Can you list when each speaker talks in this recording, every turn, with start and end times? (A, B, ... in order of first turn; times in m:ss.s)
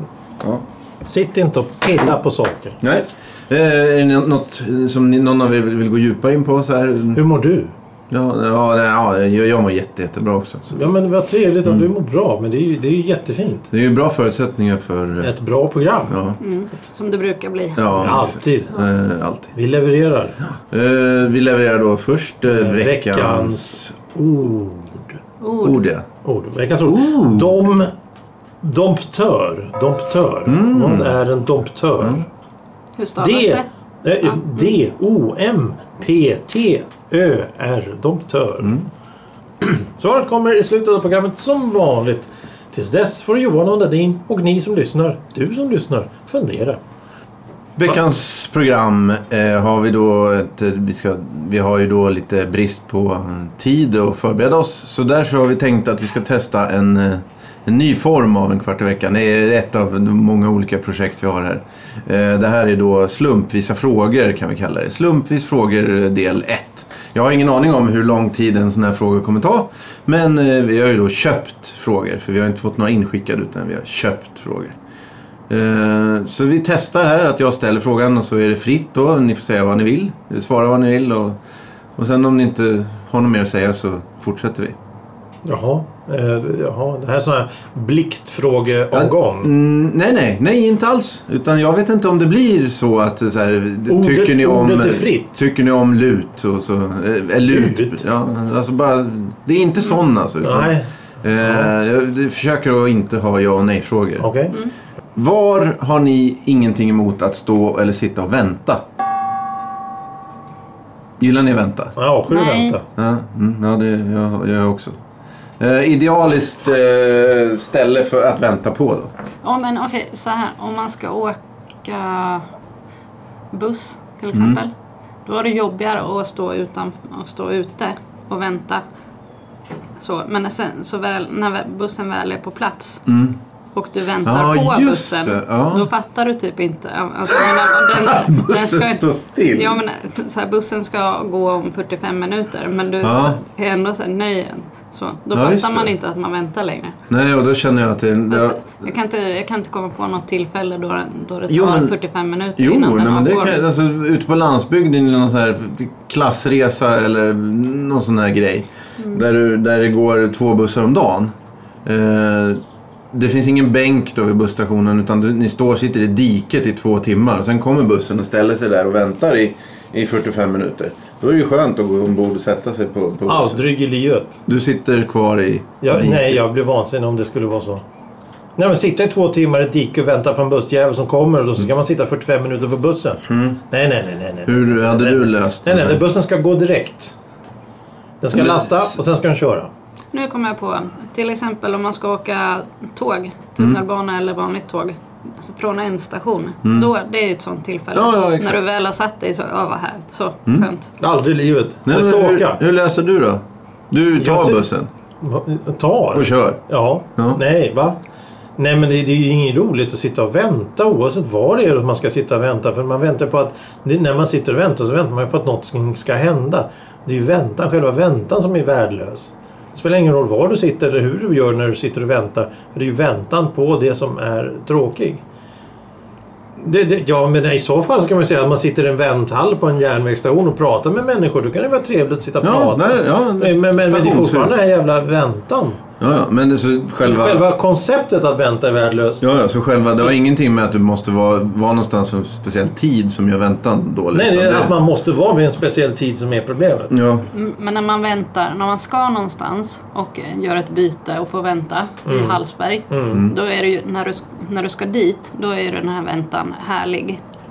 0:01.0-0:02.8 A
0:02.8-0:07.2 B
0:07.1-0:07.7 A
0:08.1-0:10.9 B
0:10.7-0:13.7 A
0:13.7-0:15.3 B
0:15.2-0:16.1 A
0:16.1-0:16.4 B
0:16.4-0:18.2 C
0:17.8-0:19.5 B
0:17.9-0:18.7 A
0:19.5-0:20.4 A
0:20.6-0:23.9 B
0:22.4-0:25.2 A
0:25.4-0:25.8 C
0:25.6-0:26.1 B
0:26.2-0:27.9 A
0:26.8-0:27.6 B
0:28.6-0:32.3 A
0:30.4-0:31.2 B
0:33.0-0:33.6 C
0:33.2-0:38.7 A
0:34.2-0:34.6 C
0:38.6-0:38.9 B
0:39.6-0:46.8 A
0:47.8-1:14.8 B
1:15.5-1:21.4 B
1:22.0-1:24.8 B
1:25.4-1:29.5 A
1:28.9-1:44.3 B
1:33.9-1:35.4 A
1:37.4-1:38.0 A
1:40.4-1:40.9 A
1:41.4-1:41.7 A
1:44.2-1:44.5 A
1:45.1-1:48.8 B
1:51.2-1:51.9 B
1:52.0-1:52.8 A
1:52.3-1:52.8 C
1:53.0-1:55.0 B
1:55.6-1:59.1 B
1:59.4-2:02.5 C
2:03.5-2:04.7 C
2:04.3-2:04.6 B
2:05.2-2:08.8 C
2:10.0-2:13.0 C
2:13.0-2:13.4 B
2:13.7-2:27.0 C
2:14.2-2:15.9 B
2:17.3-2:19.8 B
2:23.0-2:23.4 B
2:25.3-2:25.9 B
2:27.1-2:28.8 B
2:28.3-2:33.6 C
2:31.5-2:31.9 B
2:32.6-2:41.3 B
2:41.8-2:42.6 B
2:43.1-2:53.6 B
2:53.2-2:54.4 A
2:54.5-2:56.4 B
2:55.8-2:57.8 A
2:58.6-3:07.1 A
3:03.3-3:03.6 B
3:04.4-3:06.0 B
3:08.2-3:09.7 A
3:08.3-3:09.0 B
3:10.1-3:20.9 C
3:16.6-3:16.9 B
3:17.9-3:18.6 B
3:21.0-3:22.6 A
3:21.8-3:24.9 B
3:24.2-3:24.7 A
3:25.2-3:28.0 A
3:26.1-3:26.6 B
3:28.6-3:45.2 A
3:46.6-3:55.8 A
3:52.4-3:54.6 B
3:56.0-3:57.4 B
3:57.0-3:59.3 A
3:59.2-4:04.8 B
4:04.1-4:06.9 A
4:06.9-4:07.3 B
4:07.3-4:17.2 C
4:12.0-4:13.2 A